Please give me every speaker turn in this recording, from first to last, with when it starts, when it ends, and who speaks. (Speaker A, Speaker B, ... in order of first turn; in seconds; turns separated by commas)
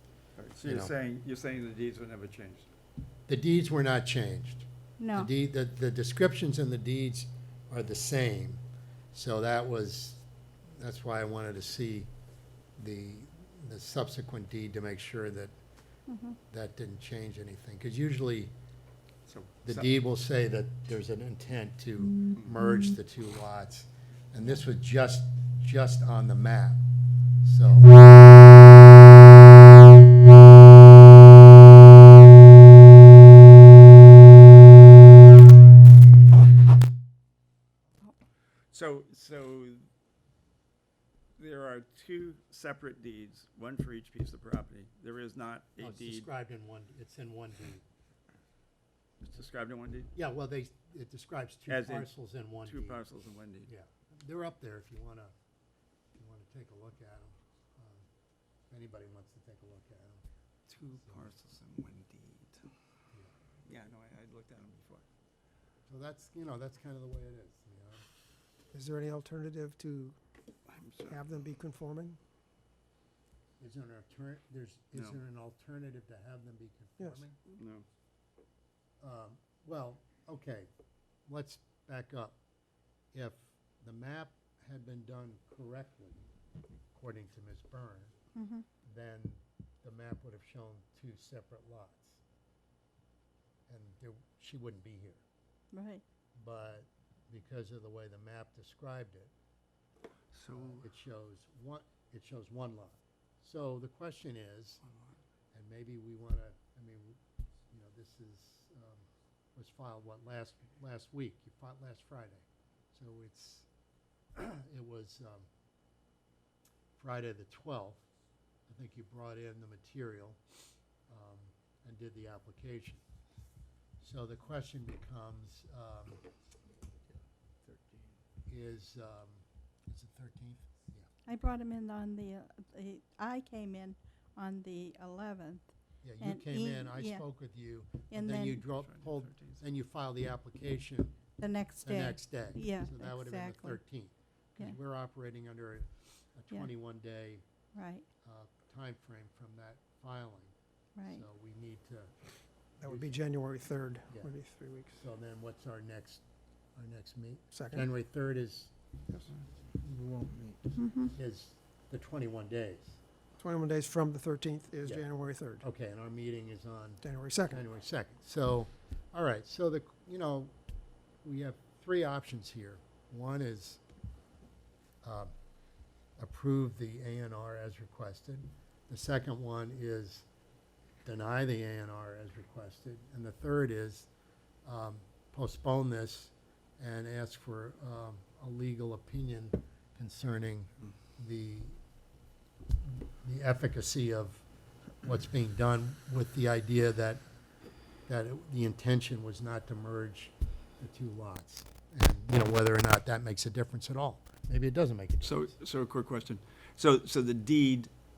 Speaker A: 0.3-2.7, Speaker B: 0.6-0.9, Speaker B: 3.3-8.6, Speaker C: 5.0-5.3, Speaker B: 9.1-10.2, Speaker B: 10.8-12.1, Speaker B: 12.8-15.5, Speaker C: 16.1-16.3, Speaker B: 16.5-18.5, Speaker A: 19.3-19.9, Speaker B: 19.6-26.8, Speaker B: 27.4-28.1, Speaker A: 38.7-39.8, Speaker A: 41.4-46.3, Speaker B: 45.8-47.8, Speaker A: 49.2-50.1, Speaker B: 50.1-53.0, Speaker A: 51.7-52.1, Speaker A: 52.6-53.7, Speaker B: 53.7-55.3, Speaker B: 56.1-58.1, Speaker B: 58.7-60.2, Speaker A: 60.7-62.7, Speaker B: 61.0-61.3, Speaker A: 63.6-65.0, Speaker B: 65.8-68.0, Speaker D: 68.7-70.2, Speaker A: 70.7-71.2, Speaker D: 71.0-72.2, Speaker B: 73.6-77.4, Speaker A: 77.5-77.8, Speaker B: 79.0-80.7, Speaker B: 81.3-82.3, Speaker B: 83.1-86.2, Speaker B: 86.9-88.1, Speaker C: 88.3-88.7, Speaker B: 88.8-92.2, Speaker B: 93.7-95.2, Speaker C: 95.7-96.0, Speaker B: 96.3-99.3, Speaker A: 100.3-100.8, Speaker B: 100.5-104.8, Speaker A: 104.8-105.1, Speaker B: 105.5-107.2, Speaker B: 107.7-113.7, Speaker B: 114.3-115.5, Speaker B: 117.0-118.0, Speaker B: 118.7-120.4, Speaker B: 121.1-123.0, Speaker B: 124.0-126.2, Speaker B: 128.5-131.1, Speaker C: 131.2-135.7, Speaker B: 136.0-141.2, Speaker C: 136.2-137.2, Speaker C: 138.1-138.6, Speaker A: 138.7-139.6, Speaker C: 141.4-143.8, Speaker B: 141.8-147.4, Speaker C: 147.7-148.0, Speaker B: 148.2-150.5, Speaker C: 150.9-151.2, Speaker B: 151.1-152.1, Speaker D: 152.8-155.0, Speaker B: 152.8-153.2, Speaker B: 154.9-156.2, Speaker B: 156.8-158.7, Speaker D: 157.5-157.9, Speaker D: 159.8-160.6, Speaker C: 160.8-161.1, Speaker B: 161.1-163.0, Speaker D: 163.4-165.7, Speaker B: 165.6-170.5, Speaker D: 167.0-167.6, Speaker B: 171.2-173.8, Speaker B: 175.0-175.3, Speaker B: 176.2-180.2, Speaker B: 181.0-184.1, Speaker B: 184.6-191.8, Speaker B: 192.8-194.4, Speaker B: 195.0-197.2, Speaker B: 198.1-205.5, Speaker A: 205.2-207.9